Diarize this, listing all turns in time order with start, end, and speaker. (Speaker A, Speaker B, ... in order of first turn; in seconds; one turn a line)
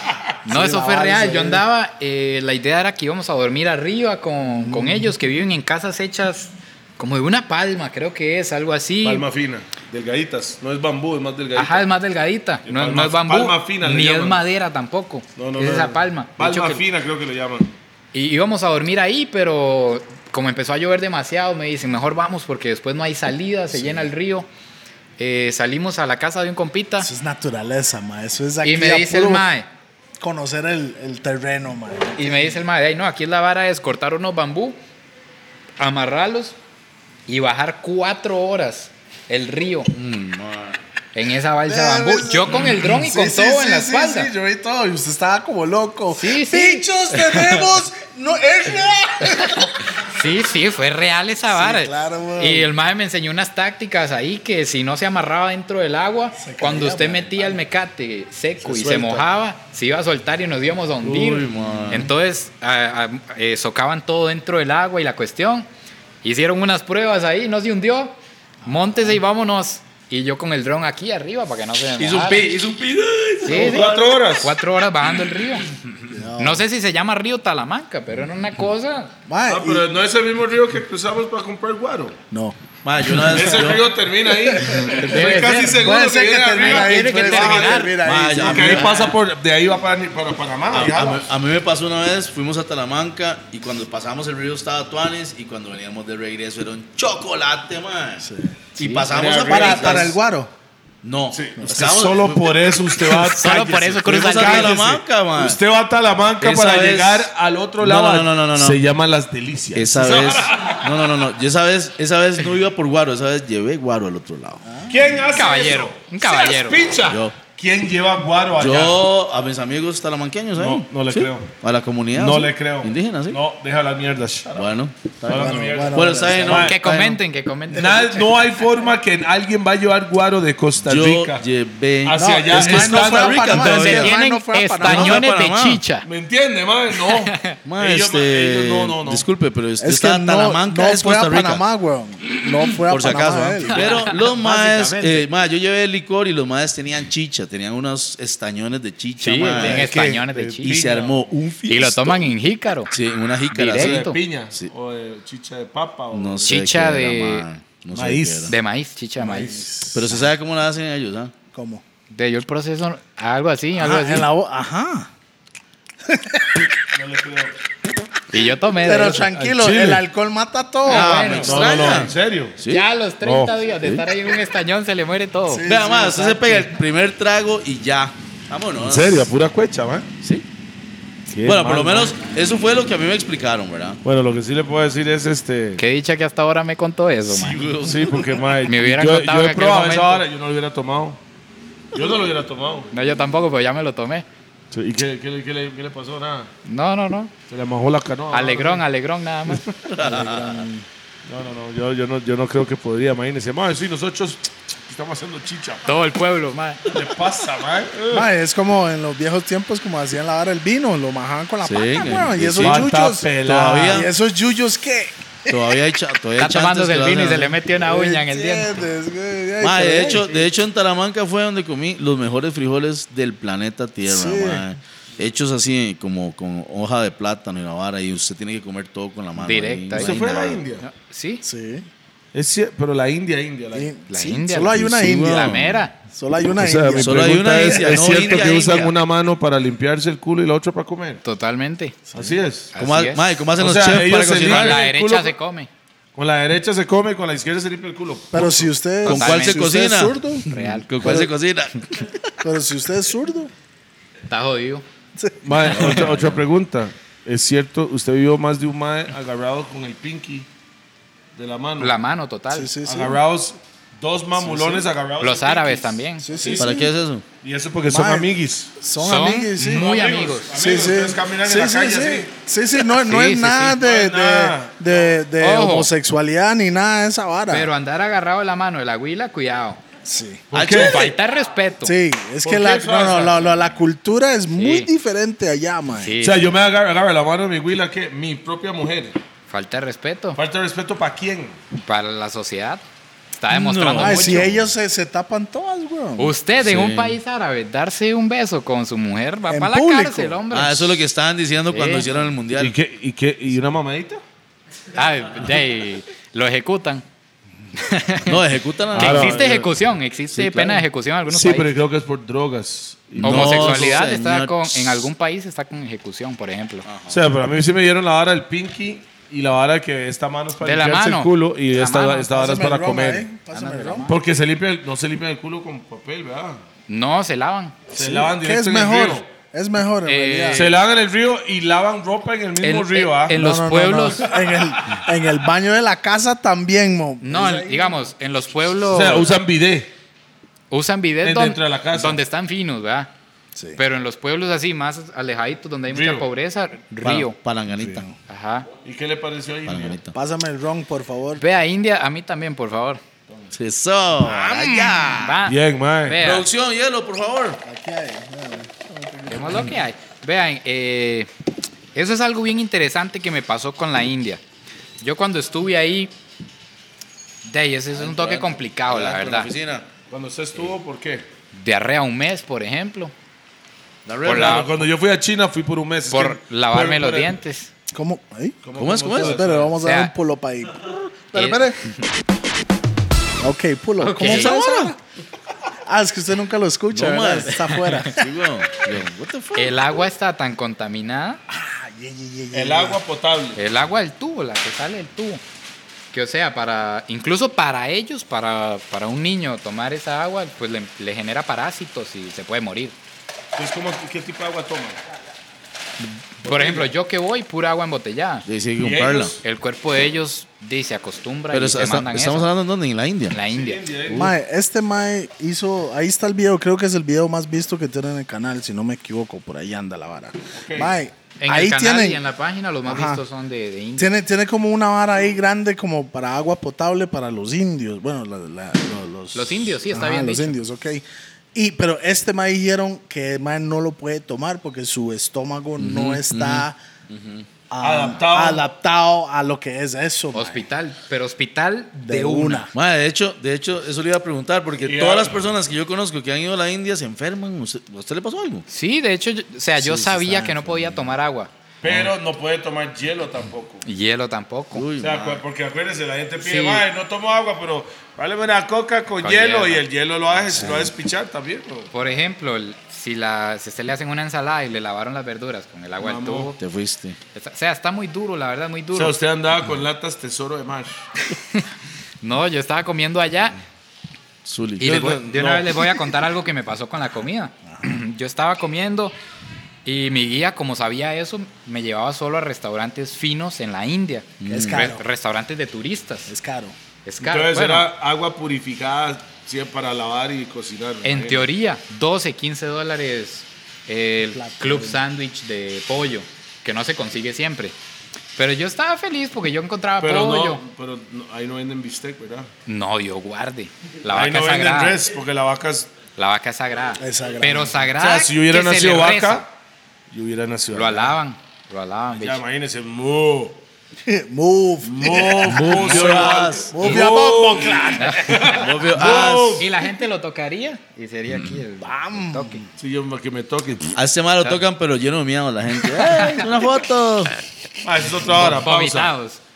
Speaker A: 0.5-1.6
Speaker B: 0.5-9.3
Speaker A: 4.5-5.1
Speaker C: 9.0-11.9
Speaker B: 11.6-16.8
Speaker C: 12.7-14.4
Speaker C: 15.4-17.7
Speaker B: 18.1-24.5
Speaker A: 23.7-24.1
Speaker B: 25.2-27.1
Speaker A: 27.0-29.4
Speaker B: 28.6-29.7
Speaker A: 30.2-32.6
Speaker B: 32.2-34.8
Speaker B: 35.8-36.6
Speaker B: 37.3-39.9
Speaker D: 39.9-40.8
Speaker B: 41.1-44.3
Speaker A: 41.6-49.8
Speaker B: 46.1-47.7
Speaker B: 49.5-65.7
Speaker A: 51.5-52.7
Speaker A: 56.4-57.6
Speaker C: 58.6-59.3
Speaker D: 61.0-62.1
Speaker B: 66.2-72.5
Speaker D: 72.0-73.9
Speaker B: 73.4-75.7
Speaker C: 73.5-74.6
Speaker A: 73.5-73.9
Speaker A: 76.1-76.6
Speaker B: 76.4-79.1
Speaker A: 79.3-79.9
Speaker C: 79.5-82.2
Speaker A: 82.3-82.6
Speaker D: 82.8-83.9
Speaker C: 83.2-91.3
Speaker A: 84.5-88.9
Speaker B: 84.7-85.9
Speaker B: 86.6-88.0
Speaker D: 88.0-89.1
Speaker D: 90.7-100.2
Speaker A: 98.2-98.6
Speaker B: 98.8-99.5
Speaker C: 99.1-100.1
Speaker A: 99.5-100.5
Speaker D: 101.0-102.5
Speaker C: 101.3-110.9
Speaker A: 101.6-102.0
Speaker B: 103.2-104.8
Speaker D: 104.0-105.6
Speaker D: 106.4-108.8
Speaker D: 109.7-114.7
Speaker A: 114.6-115.2
Speaker C: 114.9-119.0
Speaker B: 115.3-116.8
Speaker D: 117.1-117.4
Speaker D: 118.6-123.4
Speaker C: 120.6-121.5
Speaker C: 122.1-126.8
Speaker D: 124.5-127.2
Speaker A: 125.3-126.7
Speaker B: 126.5-128.3
Speaker C: 127.7-131.4
Speaker D: 130.8-134.1
Speaker C: 132.0-134.1
Speaker A: 132.2-135.2
Speaker B: 133.6-136.1
Speaker D: 134.8-135.8
Speaker C: 136.0-139.2
Speaker B: 137.1-137.6
Speaker D: 137.6-141.6
Speaker A: 139.8-144.0
Speaker D: 142.9-152.3
Speaker B: 143.7-145.2
Speaker B: 149.2-150.8
Speaker C: 149.5-151.3
Speaker B: 151.7-152.9
Speaker D: 152.9-154.7
Speaker B: 153.5-154.2
Speaker C: 153.7-156.5
Speaker D: 156.1-158.6
Speaker B: 156.5-157.4
Speaker C: 157.9-158.5
Speaker B: 158.5-159.6
Speaker A: 159.2-160.2
Speaker D: 159.9-161.3
Speaker A: 161.5-161.8
Speaker B: 162.1-164.3
Speaker A: 163.8-165.1
Speaker A: 166.1-166.7
Speaker C: 166.9-167.6
Speaker B: 168.3-169.3
Speaker A: 168.8-172.1
Speaker C: 169.3-170.0
Speaker B: 170.9-172.0
Speaker D: 170.9-172.9
Speaker C: 171.4-172.6
Speaker B: 172.7-175.7
Speaker C: 173.2-173.6
Speaker A: 175.5-176.6
Speaker D: 175.7-179.3
Speaker C: 178.8-180.1
Speaker C: 181.3-182.2
Speaker D: 181.4-184.0
Speaker C: 184.0-185.8
Speaker B: 185.8-187.6
Speaker D: 187.3-188.6
Speaker C: 187.8-191.2
Speaker B: 188.7-190.2
Speaker C: 191.9-192.9
Speaker B: 192.9-194.3
Speaker C: 194.7-196.5
Speaker B: 196.7-197.3
Speaker C: 197.5-198.8
Speaker B: 198.3-199.7
Speaker D: 199.9-200.6
Speaker A: 200.0-200.9
Speaker C: 201.2-205.9
Speaker B: 205.8-206.8
Speaker C: 206.9-208.3
Speaker A: 208.1-213.3
Speaker D: 211.6-214.1
Speaker C: 212.6-214.1
Speaker A: 213.9-215.8
Speaker D: 215.5-217.6
Speaker B: 216.4-218.8
Speaker A: 217.8-220.5
Speaker D: 219.6-230.7
Speaker A: 224.1-224.7
Speaker B: 229.4-230.2
Speaker C: 229.9-230.8
Speaker B: 230.8-231.4
Speaker A: 231.4-231.9
Speaker C: 232.3-233.9
Speaker A: 233.7-238.2
Speaker B: 234.1-235.9
Speaker D: 234.7-235.8
Speaker C: 236.6-241.2
Speaker D: 237.0-239.0
Speaker B: 241.2-242.0
Speaker C: 242.1-242.7
Speaker B: 242.7-243.2
Speaker D: 242.8-244.8
Speaker C: 243.6-245.3
Speaker B: 244.4-245.7
Speaker C: 246.2-249.2
Speaker A: 248.3-250.5
Speaker D: 249.1-252.4
Speaker B: 249.1-249.7
Speaker B: 250.5-250.9
Speaker A: 251.0-251.3
Speaker A: 252.4-253.5
Speaker B: 254.3-254.8
Speaker A: 255.2-255.9
Speaker C: 255.4-260.5
Speaker D: 255.6-256.4
Speaker C: 261.4-261.9
Speaker B: 261.8-262.7
Speaker A: 262.5-263.2
Speaker C: 262.9-266.7
Speaker A: 264.4-264.9
Speaker B: 265.2-266.3
Speaker A: 266.2-266.9
Speaker D: 266.5-267.2
Speaker C: 267.4-268.7
Speaker A: 267.9-269.9
Speaker B: 269.0-270.6
Speaker C: 269.6-272.3
Speaker A: 270.5-277.7
Speaker B: 273.0-273.8
Speaker C: 273.6-275.2
Speaker B: 275.4-275.9
Speaker B: 277.5-279.8
Speaker A: 280.1-280.5
Speaker C: 280.5-281.0
Speaker D: 280.5-281.1
Speaker B: 280.7-281.9
Speaker A: 281.8-286.2
Speaker C: 282.4-283.7
Speaker B: 284.6-284.9
Speaker B: 286.0-286.5
Speaker C: 286.2-289.2
Speaker B: 289.5-290.4
Speaker C: 290.4-291.6
Speaker B: 291.8-292.8
Speaker B: 293.4-294.5
Speaker D: 293.5-294.7
Speaker A: 294.0-296.4
Speaker B: 296.2-301.0
Speaker D: 296.6-297.2
Speaker A: 299.5-300.4
Speaker D: 300.5-302.8
Speaker B: 301.7-302.1
Speaker C: 302.6-304.2
Speaker B: 304.9-307.0
Speaker B: 307.8-308.4
Speaker D: 308.2-309.7
Speaker C: 308.9-309.7
Speaker B: 308.9-311.7
Speaker D: 310.3-310.9
Speaker C: 311.3-314.0
Speaker D: 313.2-315.1
Speaker B: 313.2-316.9
Speaker D: 316.9-317.2
Speaker C: 317.1-323.3
Speaker B: 320.6-322.3
Speaker A: 322.3-324.1
Speaker B: 323.5-324.2
Speaker C: 324.1-326.6
Speaker B: 326.9-327.8
Speaker C: 327.9-329.3
Speaker A: 327.9-330.7
Speaker B: 330.1-330.8
Speaker C: 330.5-333.4
Speaker B: 332.6-334.3
Speaker A: 333.3-338.1
Speaker C: 334.3-335.0
Speaker B: 337.2-339.3
Speaker C: 338.9-339.9
Speaker B: 340.7-343.1
Speaker C: 341.2-342.2
Speaker B: 343.8-347.4
Speaker C: 345.9-346.3
Speaker D: 347.0-348.1
Speaker A: 347.7-348.1
Speaker B: 348.3-348.7
Speaker C: 348.8-350.0
Speaker D: 349.7-350.1
Speaker A: 350.1-351.4
Speaker B: 351.4-353.0
Speaker D: 353.5-355.4
Speaker A: 354.2-355.2
Speaker B: 355.1-356.5
Speaker C: 355.4-356.2
Speaker D: 356.2-357.6
Speaker A: 357.6-359.7
Speaker B: 359.3-361.3
Speaker B: 361.9-364.4
Speaker B: 365.0-366.1
Speaker B: 367.4-369.5
Speaker D: 367.9-369.9
Speaker C: 370.1-371.3
Speaker B: 371.5-373.1
Speaker D: 374.1-374.8
Speaker B: 374.2-374.9
Speaker C: 374.2-377.4
Speaker B: 376.1-377.7
Speaker A: 377.9-381.8
Speaker C: 378.6-379.8
Speaker D: 378.8-379.4
Speaker B: 379.8-380.1
Speaker B: 381.3-382.0
Speaker A: 383.4-385.0
Speaker B: 384.0-384.6
Speaker D: 384.2-384.9
Speaker A: 385.9-388.3
Speaker D: 386.9-390.0
Speaker B: 387.7-388.1
Speaker B: 389.6-391.4
Speaker A: 391.5-393.0
Speaker C: 392.5-393.6
Speaker B: 393.6-395.4
Speaker B: 396.1-402.9
Speaker C: 403.5-405.0
Speaker B: 406.0-408.5
Speaker C: 406.4-406.9
Speaker D: 408.5-409.4
Speaker C: 408.8-409.4
Speaker B: 409.4-412.5
Speaker D: 411.5-413.4
Speaker B: 413.3-414.3
Speaker C: 413.5-414.3
Speaker A: 414.1-422.2
Speaker C: 420.6-420.9
Speaker B: 421.4-424.1
Speaker A: 422.9-423.2
Speaker A: 424.0-436.8
Speaker B: 429.3-430.6
Speaker D: 435.8-437.5
Speaker A: 437.7-440.7
Speaker C: 437.8-438.6
Speaker B: 440.3-442.7
Speaker A: 442.0-442.7
Speaker D: 442.7-448.7
Speaker C: 444.8-445.4
Speaker B: 448.7-451.5
Speaker D: 449.8-450.9
Speaker A: 450.0-450.8
Speaker C: 451.8-453.8
Speaker D: 451.8-452.1
Speaker B: 453.8-454.9
Speaker D: 454.7-455.4
Speaker C: 455.0-461.9
Speaker B: 456.4-456.9
Speaker B: 459.2-459.9
Speaker D: 460.3-460.9
Speaker B: 461.9-466.6
Speaker C: 466.0-466.5
Speaker D: 466.6-467.2
Speaker B: 467.3-469.2
Speaker C: 468.9-471.0
Speaker B: 472.2-473.6
Speaker D: 474.4-474.9
Speaker B: 474.8-479.1
Speaker C: 474.8-476.0
Speaker B: 479.9-486.3
Speaker D: 484.4-484.9
Speaker A: 484.5-485.0
Speaker A: 486.3-486.8
Speaker B: 487.1-487.9
Speaker C: 487.2-491.5
Speaker B: 491.0-497.8
Speaker A: 494.3-495.0
Speaker B: 498.4-500.6
Speaker C: 500.0-502.5
Speaker B: 502.7-505.0
Speaker C: 504.1-505.9
Speaker B: 506.2-509.5
Speaker A: 507.0-507.8
Speaker C: 508.0-509.5
Speaker C: 510.1-511.1
Speaker B: 510.7-512.4
Speaker C: 512.1-513.6
Speaker A: 514.0-518.7
Speaker C: 514.8-519.7
Speaker D: 515.4-517.0
Speaker B: 518.0-518.5
Speaker D: 518.5-519.7
Speaker B: 519.6-522.6
Speaker A: 521.8-522.7
Speaker C: 522.8-524.0
Speaker D: 524.0-527.3
Speaker B: 526.0-526.5
Speaker C: 527.8-529.1
Speaker B: 528.3-529.4